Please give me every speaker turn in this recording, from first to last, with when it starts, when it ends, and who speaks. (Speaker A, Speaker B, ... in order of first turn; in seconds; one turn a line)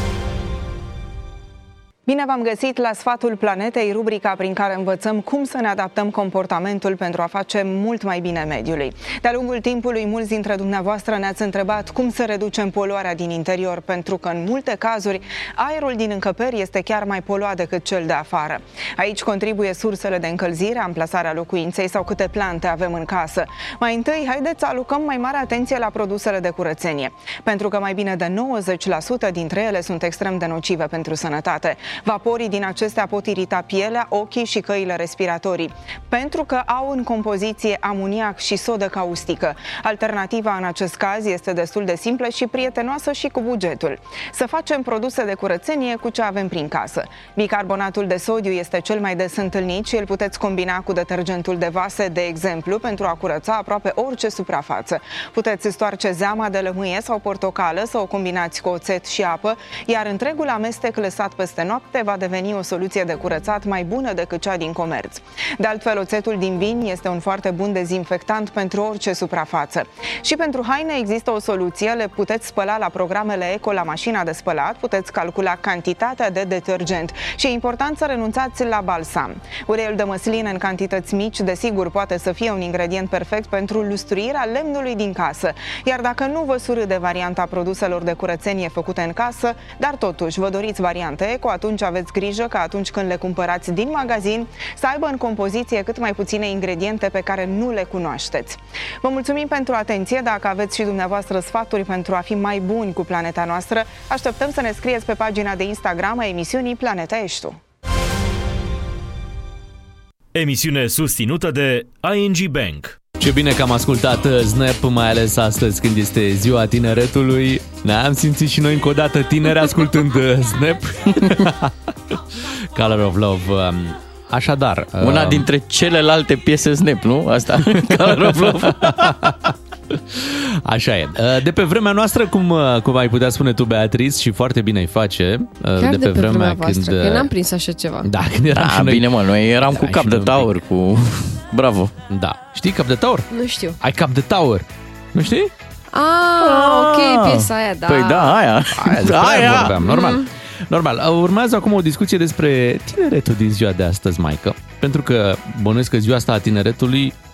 Speaker A: 2.1-107.6
Speaker B: 110.3-113.0
Speaker C: 113.2-122.2
Speaker C: 122.7-125.5
Speaker D: 125.0-129.3
Speaker C: 127.8-137.3
Speaker E: 135.8-138.1
Speaker C: 138.0-140.6
Speaker D: 138.5-141.9
Speaker C: 142.1-143.3
Speaker E: 143.3-143.8
Speaker C: 143.8-145.5
Speaker E: 145.9-148.4
Speaker D: 146.4-149.8
Speaker C: 148.7-157.2
Speaker E: 149.8-150.3